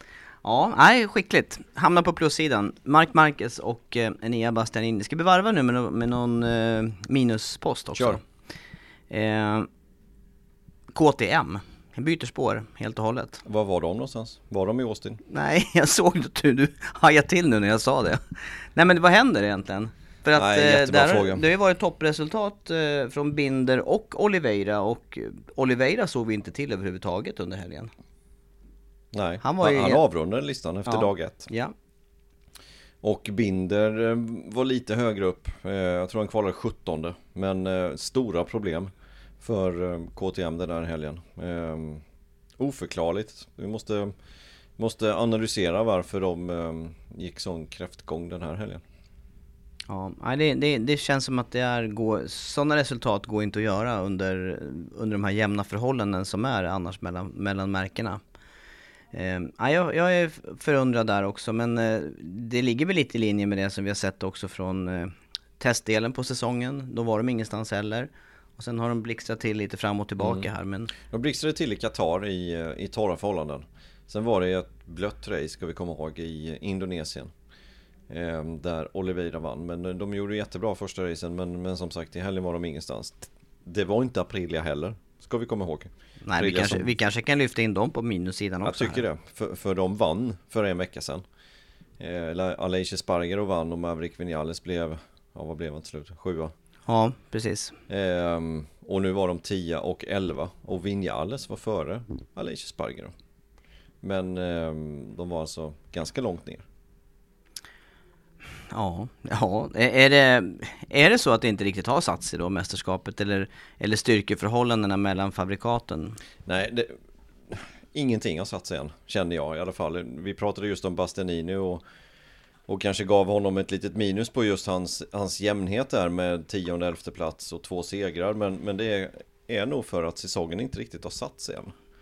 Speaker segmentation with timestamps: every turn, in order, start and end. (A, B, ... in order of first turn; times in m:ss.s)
0:00.4-0:08.2 A
0:07.9-0:08.2 B
0:09.1-0:09.7 A
0:10.9-0:13.4 A
0:13.4-0:15.2 B
0:15.3-0:27.9 A
0:20.3-0:21.4 B
0:29.1-0:31.5 B
0:29.4-0:30.0 A
0:30.9-0:31.7 A
0:33.0-0:42.0 B
0:42.6-0:44.1 B
0:44.8-0:48.8 B
0:49.9-0:58.2 A
0:59.1-1:10.9 A
1:10.2-1:17.3 B
1:18.1-1:26.9 B
1:26.2-1:29.0 A
1:28.6-1:31.2 B
1:32.0-1:36.5 B
1:36.9-1:37.8 A
1:37.9-1:43.1 B
1:44.0-1:46.6 B
1:48.7-1:56.2 A
1:56.4-1:57.0 B
1:57.5-2:01.8 B
2:02.7-2:11.7 B